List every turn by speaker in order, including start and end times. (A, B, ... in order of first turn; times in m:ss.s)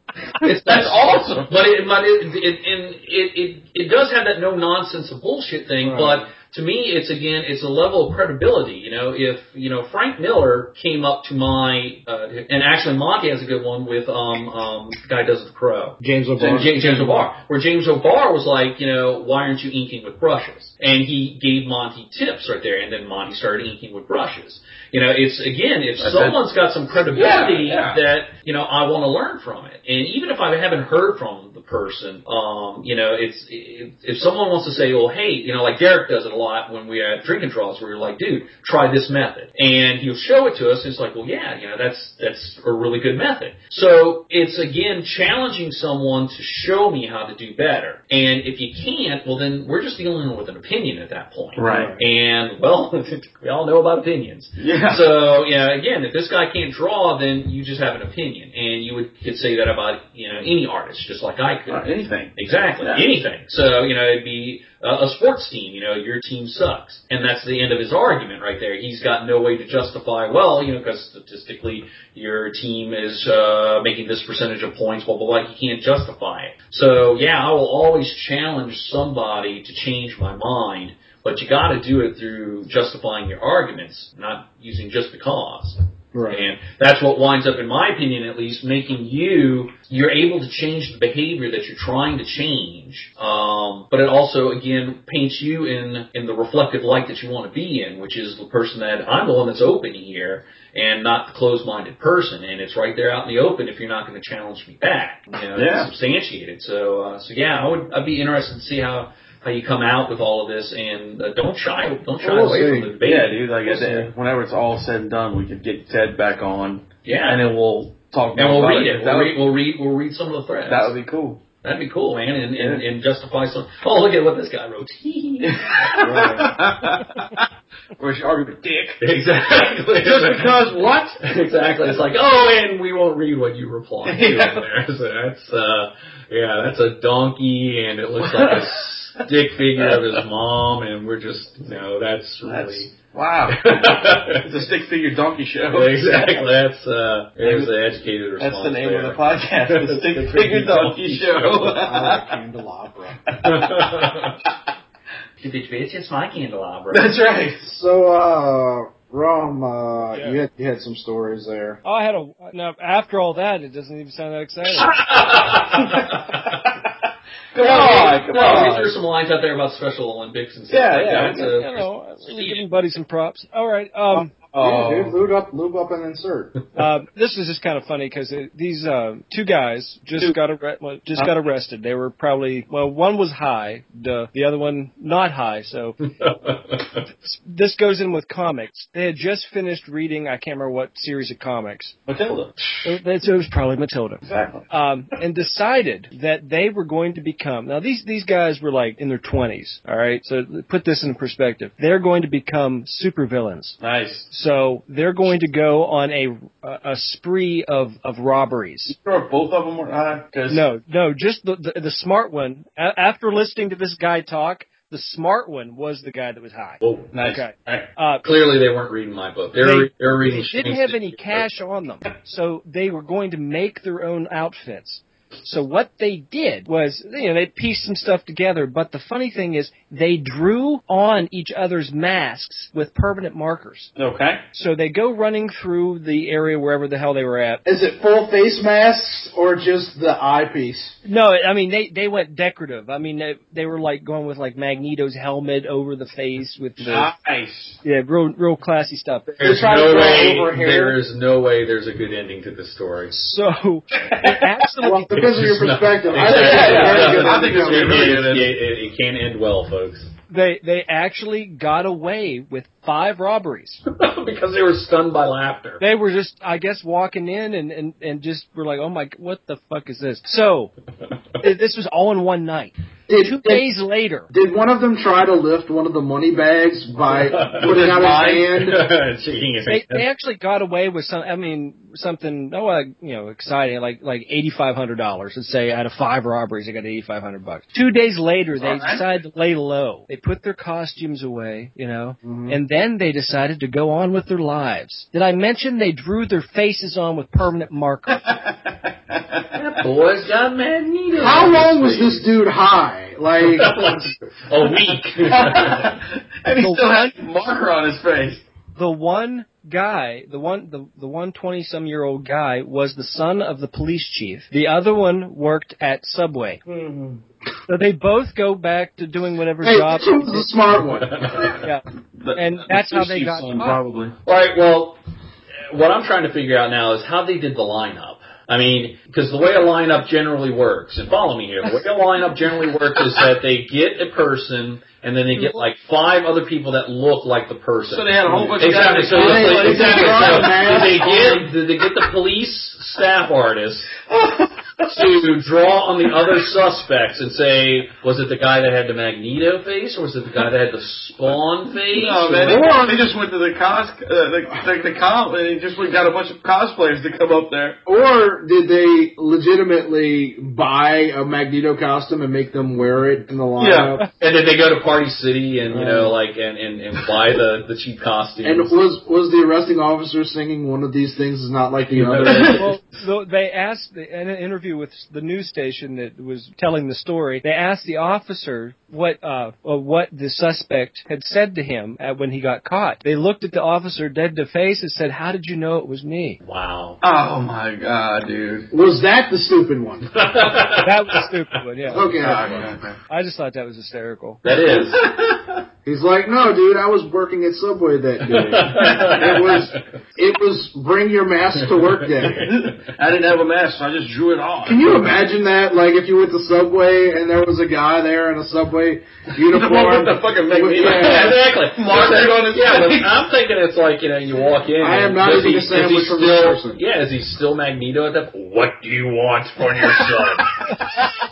0:00.4-0:01.5 A
0:00.4-1:01.8 B
0:05.8-0:06.3 C
0:16.0-0:17.2 C
0:26.0-0:26.4 A
0:27.1-0:28.0 A
0:51.6-0:51.9 A
0:51.7-0:52.0 C
0:54.6-0:55.0 A
1:01.7-1:03.0 A
1:02.4-1:25.8 B
1:26.1-1:26.5 C
1:26.3-1:54.1 B
1:45.6-1:45.9 A
1:52.2-1:52.9 C
1:53.0-1:59.4 A
1:57.0-1:57.4 B
1:58.4-2:00.9 B
2:00.7-2:01.4 A
2:01.6-2:06.3 B
2:02.6-2:02.8 A
2:05.4-2:07.4 A
2:06.0-2:06.6 C
2:08.0-2:09.0 A
2:09.0-2:10.6 B
2:09.9-2:11.2 A
2:11.2-2:22.9 B
2:14.0-2:14.6 A
2:18.3-2:18.8 A
2:22.4-2:23.6 A
2:23.5-2:24.5 B
2:24.3-2:26.4 A
2:25.7-2:31.8 B
2:27.4-2:27.8 A
2:28.4-2:32.3 A
2:31.8-2:33.2 C
2:33.3-2:33.8 A
2:33.4-2:34.4 B
2:35.4-2:37.1 B
2:36.9-2:37.7 A
2:37.6-2:41.8 C
2:40.1-2:40.4 D
2:41.8-2:45.0 D
2:44.7-2:46.5 B
2:45.8-2:46.2 A
2:47.5-2:48.9 A
2:47.6-2:51.9 B
2:50.7-2:52.6 A
2:51.3-2:54.3 D
2:54.2-2:55.2 A
2:54.6-2:56.5 C
2:56.8-3:06.1 D
3:06.2-3:06.7 B
3:07.2-3:12.0 D
3:12.1-3:12.8 A
3:12.8-3:29.0 D
3:14.2-3:14.7 A
3:23.8-3:24.3 A
3:28.9-3:30.6 A
3:30.5-3:38.3 D
3:36.8-3:37.1 B
3:37.1-3:37.9 A
3:38.2-3:41.5 B
3:39.6-3:53.9 D
3:54.0-3:54.4 A
3:54.5-3:57.6 D
3:57.6-4:01.0 C
4:01.0-4:07.1 D
4:06.8-4:07.8 A
4:07.8-4:09.3 D
4:09.3-4:13.2 B
4:09.4-4:11.0 C
4:13.1-4:15.3 D
4:14.1-4:14.4 A
4:14.8-4:18.2 C
4:15.1-4:20.1 B
4:16.2-4:18.6 A
4:16.5-4:17.2 D
4:20.3-4:23.8 D
4:23.9-4:25.8 B
4:25.8-4:30.7 D
4:31.4-4:34.3 D
4:33.1-4:33.7 C
4:34.3-4:38.8 C
4:37.1-4:40.1 B
4:37.6-4:38.5 A
4:39.7-4:58.4 D
4:48.6-4:49.0 A
4:52.2-4:52.6 C
4:58.1-4:59.4 A
4:59.5-5:02.3 B
5:01.1-5:04.0 C
5:03.4-5:06.0 B
5:05.3-5:08.4 A
5:06.6-5:07.2 D
5:08.8-5:16.6 D
5:16.7-5:17.1 C
5:17.7-5:20.5 D
5:19.6-5:21.5 C
5:21.1-5:21.5 B
5:22.2-5:24.2 A
5:22.4-5:23.8 D
5:24.3-5:25.0 B
5:25.7-5:44.0 B
5:37.9-5:40.9 A
5:38.2-5:41.5 C
5:44.1-5:44.8 A
5:44.8-5:52.7 B
5:51.9-5:57.8 A
5:52.4-5:53.0 C
5:57.9-6:04.1 C
6:03.6-6:04.0 A
6:04.2-6:08.8 B
6:05.7-6:06.2 C
6:08.4-6:12.7 C
6:12.0-6:12.5 B
6:12.2-6:12.7 A
6:12.6-6:26.4 D
6:26.4-6:27.0 B
6:27.0-6:28.7 A
6:28.7-6:30.1 C
6:30.1-6:31.3 B
6:30.8-6:32.3 D
6:31.9-6:32.7 C
6:31.9-6:33.0 A
6:33.1-6:34.4 D
6:34.4-6:35.1 B
6:34.5-6:35.6 A
6:35.8-6:42.5 C
6:38.3-6:39.8 B
6:41.6-6:42.9 B
6:42.4-6:45.2 A
6:44.6-6:51.4 C
6:49.5-6:53.2 A
6:50.8-7:00.8 B
6:54.8-6:56.8 C